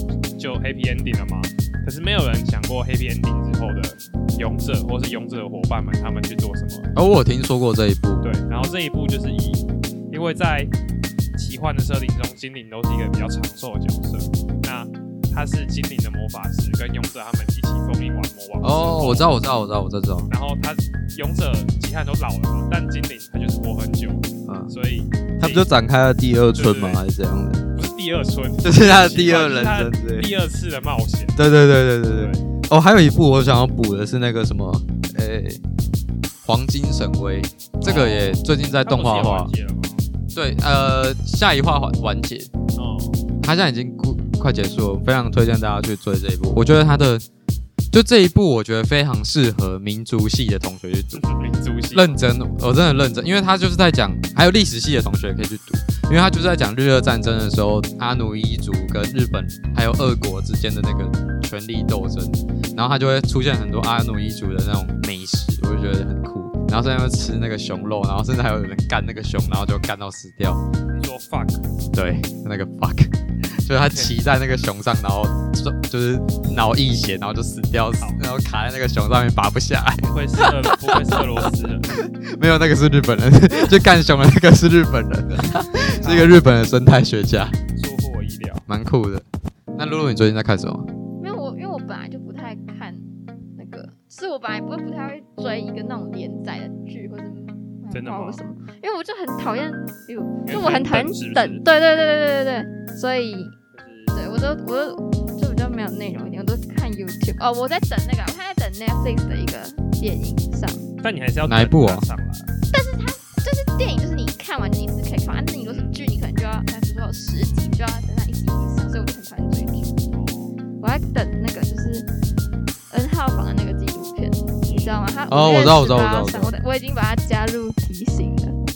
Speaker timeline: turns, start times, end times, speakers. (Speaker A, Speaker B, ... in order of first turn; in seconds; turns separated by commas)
Speaker A: 0.3-6.9, Speaker B: 7.0-8.8, Speaker A: 8.2-10.7, Speaker A: 11.3-19.4, Speaker B: 18.6-20.3, Speaker A: 20.3-25.7, Speaker B: 24.5-24.8, Speaker B: 25.4-27.7, Speaker A: 26.6-27.0, Speaker A: 27.8-31.4, Speaker B: 28.6-30.3, Speaker B: 31.4-35.6, Speaker A: 32.1-32.4, Speaker B: 36.4-39.5, Speaker A: 37.8-40.0, Speaker B: 40.3-42.5, Speaker A: 42.8-43.2, Speaker B: 43.4-47.2, Speaker B: 47.9-51.4, Speaker A: 51.1-52.2, Speaker B: 51.9-70.6, Speaker A: 70.9-71.6, Speaker B: 71.9-87.6, Speaker A: 80.0-82.0, Speaker A: 85.8-86.4, Speaker A: 87.7-88.7, Speaker B: 88.7-90.9, Speaker C: 91.2-93.0, Speaker C: 93.6-103.6, Speaker A: 97.9-98.4, Speaker A: 100.5-101.7, Speaker A: 103.7-104.2, Speaker C: 104.1-110.9, Speaker A: 111.0-112.5, Speaker B: 111.5-112.1, Speaker C: 112.7-119.9, Speaker A: 115.6-115.9, Speaker A: 120.1-120.6, Speaker C: 120.8-122.1, Speaker C: 122.9-128.6, Speaker A: 124.7-125.0, Speaker B: 125.3-126.5